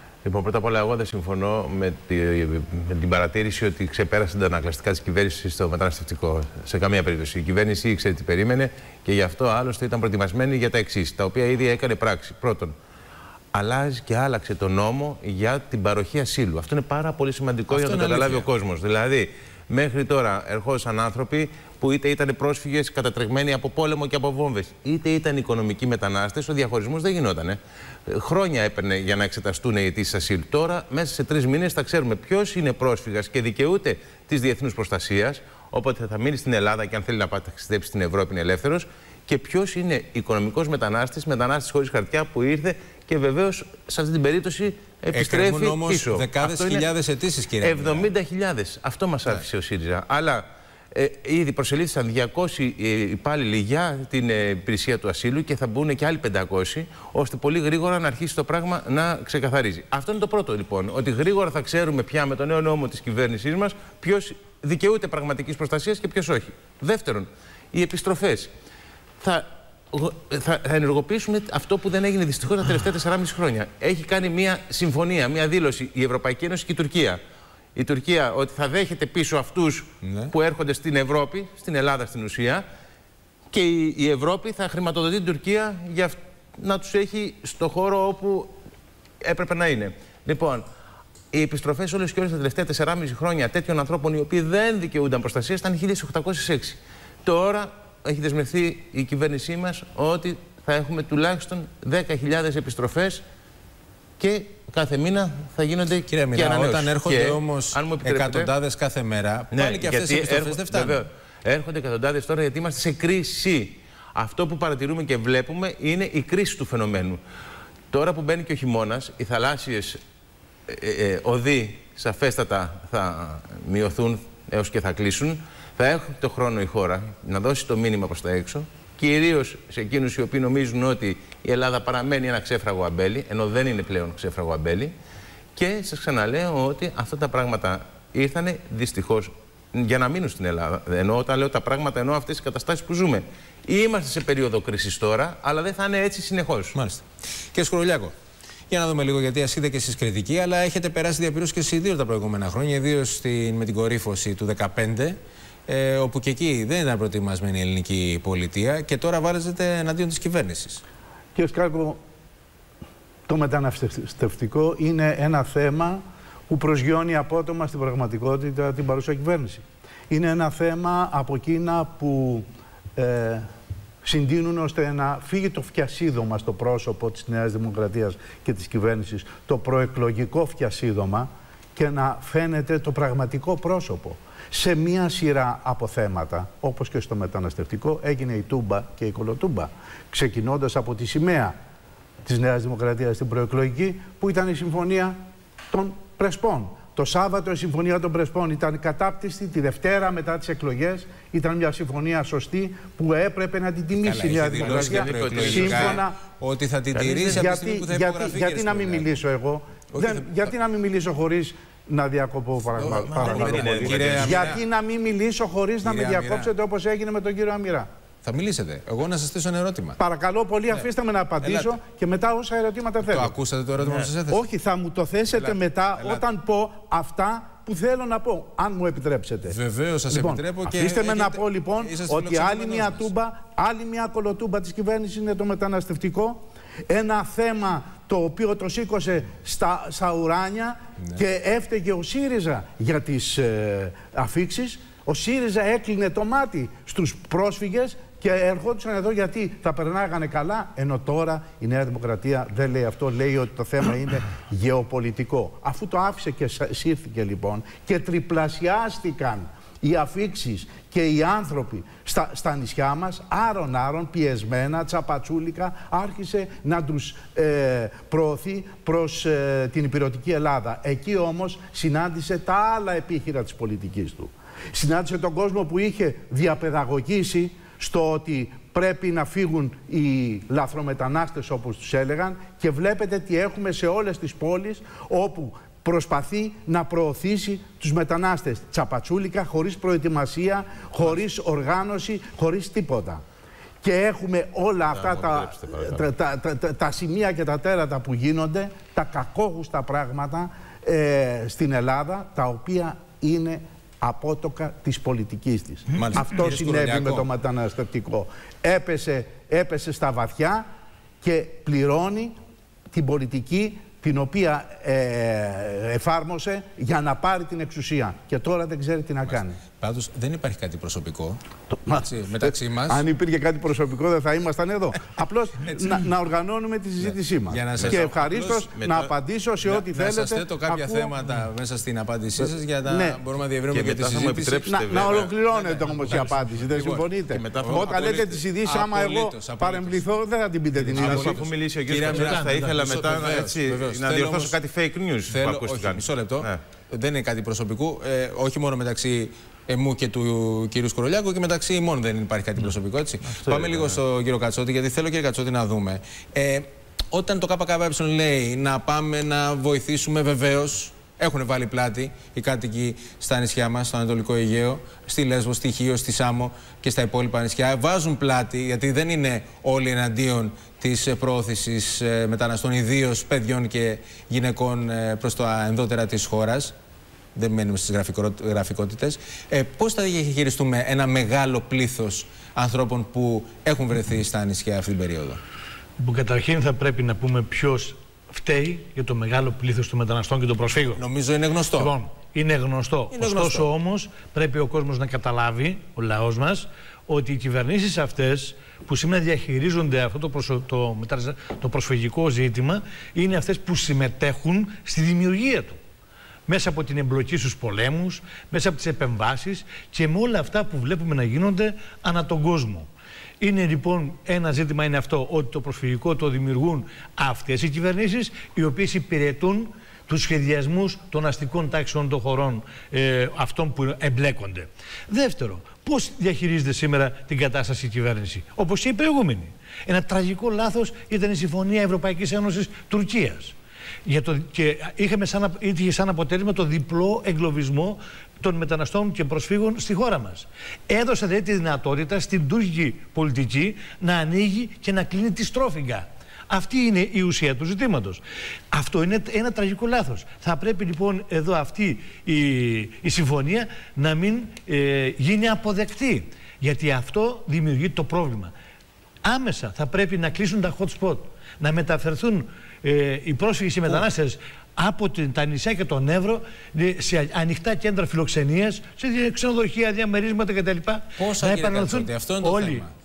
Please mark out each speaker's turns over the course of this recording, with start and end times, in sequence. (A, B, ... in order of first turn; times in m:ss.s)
0:00.2-0:12.7 A
0:13.5-0:46.9 A
0:17.7-0:18.5 B
0:45.1-0:48.1 B
0:47.6-1:08.5 A
1:09.2-1:17.2 A
1:17.8-1:22.6 A
1:20.0-1:20.3 B
1:23.5-1:28.5 A
1:29.2-1:30.6 A
1:31.3-1:43.2 A
1:44.2-1:48.5 A
1:46.1-1:51.0 B
1:49.5-1:57.2 A
1:57.9-2:00.0 A
2:00.7-2:14.9 A
2:15.6-2:26.7 A
2:26.7-2:28.1 B
2:28.7-2:40.8 B
2:41.3-2:42.0 C
2:43.3-2:52.4 C
2:53.0-2:53.4 C
2:54.0-3:11.5 C
3:12.2-3:15.2 C
3:15.7-3:26.2 C
3:24.0-3:29.2 B
3:24.6-3:26.0 A
3:26.9-3:27.5 A
3:27.3-3:37.9 C
3:29.9-3:30.3 B
3:32.8-3:34.6 A
3:33.2-3:34.6 B
3:35.8-3:36.5 B
3:38.2-3:40.0 B
3:40.0-3:43.3 C
3:41.4-3:41.7 B
3:43.0-3:44.4 B
3:43.8-3:44.1 A
3:44.3-3:49.6 C
3:45.3-3:46.2 B
3:49.4-3:53.1 B
3:50.1-4:53.2 C
4:53.8-5:10.6 C
4:54.9-4:56.0 A
5:05.9-5:07.2 B
5:11.2-5:12.3 C
5:12.9-5:19.6 C
5:19.2-5:21.4 B
5:21.7-5:31.1 C
5:21.9-5:23.0 B
5:27.0-5:28.6 B
5:27.8-5:29.1 A
5:29.6-5:37.0 B
5:32.4-5:33.2 C
5:33.7-5:35.4 A
5:34.6-5:41.4 C
5:36.1-5:36.3 D
5:36.7-5:38.4 A
5:37.6-5:38.0 B
5:38.6-5:40.0 B
5:40.7-5:44.6 B
5:40.9-5:46.6 A
5:42.1-5:42.8 D
5:45.3-6:16.7 B
5:53.3-5:54.0 A
6:17.3-6:25.4 B
6:26.0-6:31.0 D
6:30.9-6:31.9 B
6:31.7-6:45.8 D
6:33.1-6:33.7 B
6:46.5-6:52.9 D
6:53.4-7:13.5 D
7:14.0-7:28.2 D
7:28.7-7:38.5 D
7:39.2-7:52.8 D
7:51.2-7:52.9 B